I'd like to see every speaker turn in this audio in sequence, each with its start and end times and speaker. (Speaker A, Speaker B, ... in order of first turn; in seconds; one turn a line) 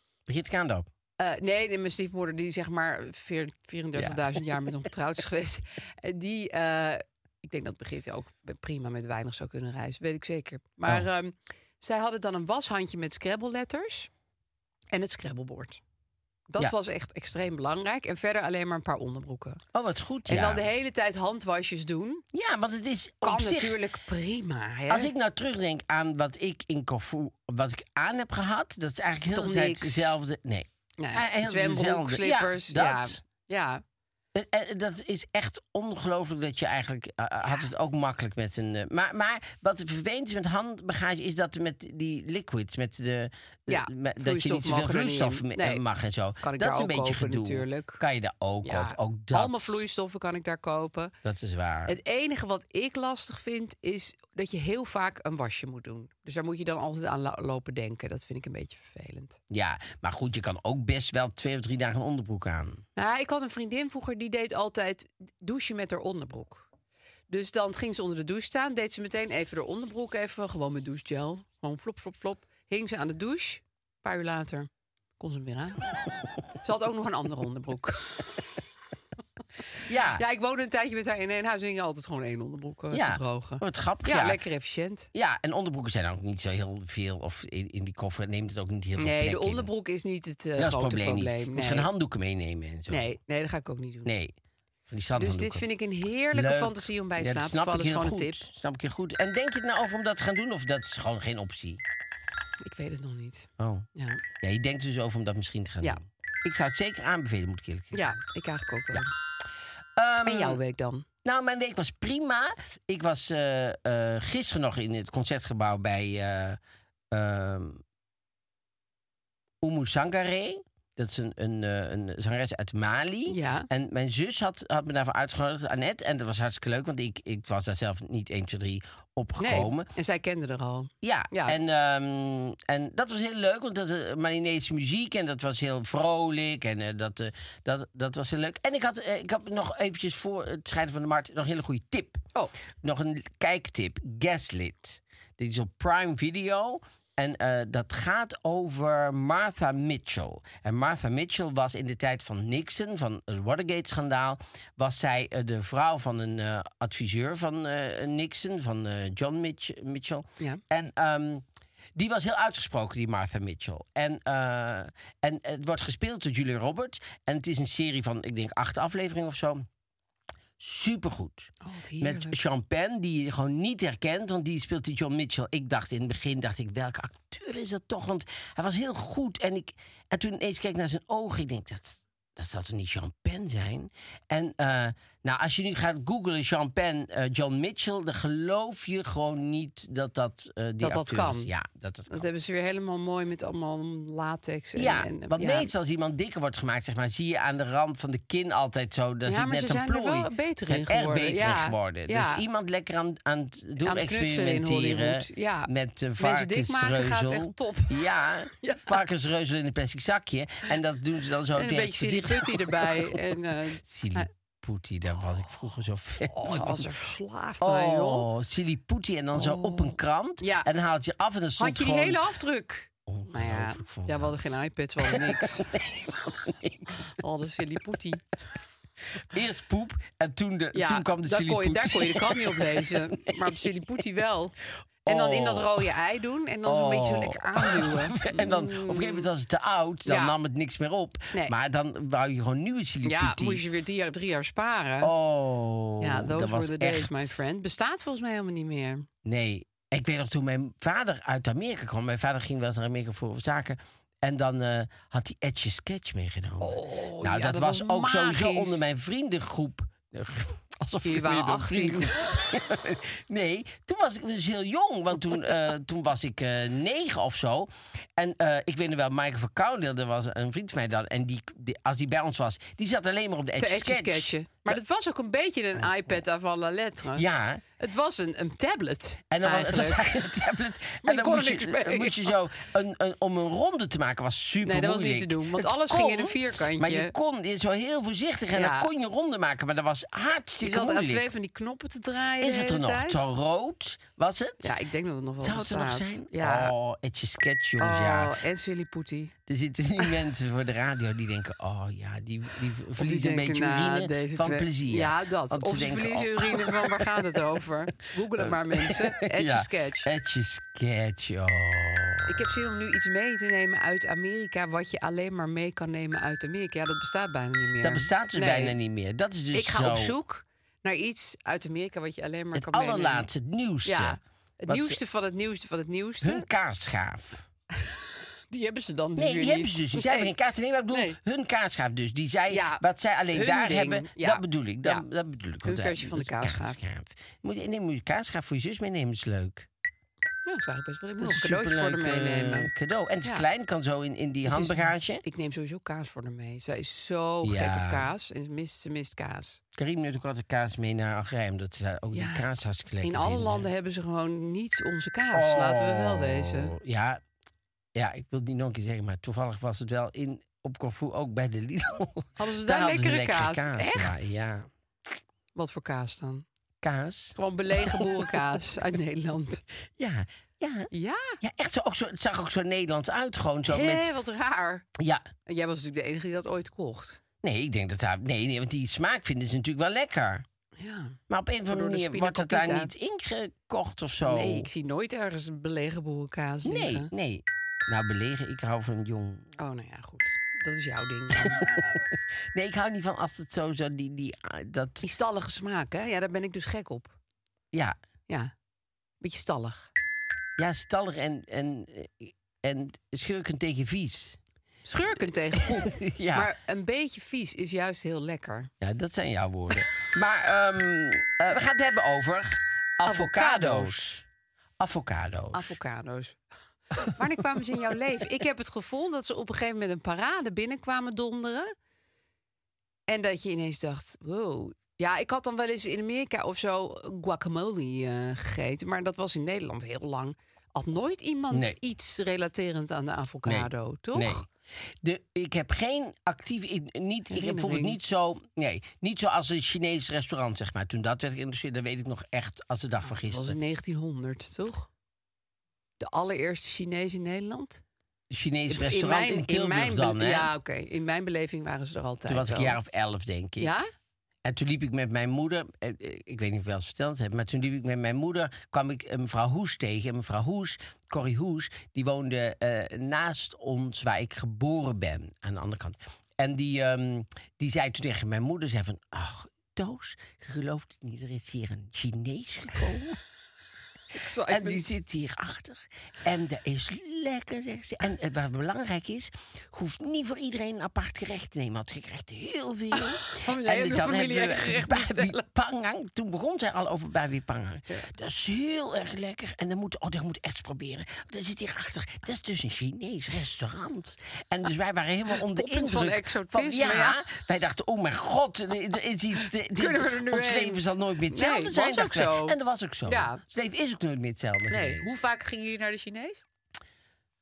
Speaker A: 0.3-0.9
Speaker B: 1.2-14.1
Speaker A: 4.0-4.3
Speaker B: 14.9-15.8
Speaker B: 16.5-19.6
Speaker A: 19.7-20.6
Speaker B: 20.3-22.2
Speaker A: 22.3-23.8
Speaker B: 23.2-25.1
Speaker A: 24.9-33.2
Speaker B: 29.3-30.1
Speaker B: 31.0-33.8
Speaker A: 34.3-49.8
Speaker B: 43.7-45.8
Speaker B: 46.4-48.0
Speaker B: 48.6-51.1
Speaker A: 51.2-52.0
Speaker B: 51.9-59.4
Speaker A: 59.5-62.8
Speaker B: 63.0-66.7
Speaker B: 67.3-75.8
Speaker B: 76.6-78.4
Speaker A: 79.8-80.2
Speaker B: 80.1-85.1
Speaker A: 82.9-84.4
Speaker A: 85.1-89.7
Speaker B: 89.0-91.9
Speaker A: 90.6-93.1
Speaker B: 92.9-94.1
Speaker A: 94.0-94.3
Speaker A: 94.9-95.7
Speaker B: 95.2-98.4
Speaker A: 96.3-101.8
Speaker B: 102.6-104.2
Speaker A: 103.6-103.9
Speaker A: 104.4-108.2
Speaker B: 107.9-109.1
Speaker A: 110.0-110.6
Speaker B: 110.2-111.0
Speaker A: 111.2-116.6
Speaker A: 117.1-117.8
Speaker A: 119.6-129.9
Speaker B: 123.3-123.7
Speaker B: 129.4-131.6
Speaker A: 131.0-142.2
Speaker A: 142.8-169.7
Speaker A: 170.6-192.3
Speaker B: 171.6-172.4
Speaker B: 190.8-191.5
Speaker B: 192.1-195.7
Speaker A: 194.8-216.9
Speaker B: 199.2-202.4
Speaker B: 203.8-208.0
Speaker B: 208.6-209.0
Speaker B: 211.5-214.3
Speaker B: 216.3-218.3
Speaker A: 217.6-222.2
Speaker B: 219.3-220.7
Speaker B: 221.6-225.7
Speaker A: 223.1-227.1
Speaker B: 227.1-228.2
Speaker A: 229.2-233.6
Speaker B: 230.7-234.5
Speaker A: 235.0-235.9
Speaker B: 235.1-239.3
Speaker A: 236.6-243.6
Speaker B: 240.1-240.3
Speaker B: 243.0-245.1
Speaker A: 245.0-247.4
Speaker B: 246.0-249.1
Speaker A: 249.2-274.8
Speaker B: 256.6-258.9
Speaker B: 261.0-262.1
Speaker B: 273.6-277.2
Speaker A: 277.1-277.6
Speaker B: 277.8-280.0
Speaker A: 279.3-291.3
Speaker B: 281.0-282.3
Speaker B: 284.6-287.1
Speaker B: 288.5-288.9
Speaker B: 290.6-293.3
Speaker A: 292.4-294.7
Speaker B: 294.6-296.7
Speaker A: 295.4-298.3
Speaker B: 297.8-299.3
Speaker A: 299.5-307.2
Speaker B: 303.0-310.1
Speaker A: 308.4-312.4
Speaker B: 312.3-318.8
Speaker A: 317.8-320.1
Speaker B: 319.5-323.3
Speaker A: 322.5-325.0
Speaker B: 323.8-326.4
Speaker A: 326.2-327.4
Speaker B: 327.7-330.3
Speaker A: 329.1-339.7
Speaker B: 330.9-331.2
Speaker B: 332.5-335.0
Speaker B: 335.6-336.8
Speaker B: 340.4-342.7
Speaker A: 341.2-345.2
Speaker B: 344.4-349.6
Speaker A: 347.4-348.1
Speaker A: 349.7-353.7
Speaker B: 352.1-352.4
Speaker B: 353.0-356.8
Speaker A: 355.3-357.2
Speaker A: 357.9-364.7
Speaker B: 362.4-364.3
Speaker B: 365.5-366.4
Speaker A: 366.8-368.3
Speaker B: 367.4-369.6
Speaker A: 370.0-370.9
Speaker B: 370.9-371.4
Speaker A: 371.4-374.1
Speaker B: 373.6-374.8
Speaker A: 374.9-375.2
Speaker B: 375.5-377.2
Speaker A: 377.4-380.4
Speaker B: 380.8-382.9
Speaker A: 381.3-384.7
Speaker B: 384.2-387.1
Speaker A: 386.6-389.5
Speaker B: 389.6-391.7
Speaker A: 391.3-395.1
Speaker B: 395.0-397.1
Speaker B: 399.2-399.9
Speaker A: 400.6-404.4
Speaker B: 404.8-408.7
Speaker A: 405.5-406.5
Speaker A: 408.8-414.2
Speaker B: 413.0-414.1
Speaker A: 414.8-415.8
Speaker B: 415.5-416.4
Speaker B: 417.0-421.7
Speaker B: 423.1-434.4
Speaker A: 431.5-431.8
Speaker A: 433.4-443.6
Speaker B: 437.3-438.0
Speaker B: 443.1-444.9
Speaker B: 446.0-447.8
Speaker A: 448.3-450.5
Speaker B: 448.7-452.8
Speaker A: 452.2-453.7
Speaker B: 453.6-453.9
Speaker A: 454.4-473.2
Speaker B: 474.1-474.8
Speaker A: 474.5-505.2
Speaker B: 482.9-485.4
Speaker B: 495.3-497.2
Speaker B: 499.4-503.4
Speaker B: 504.7-506.4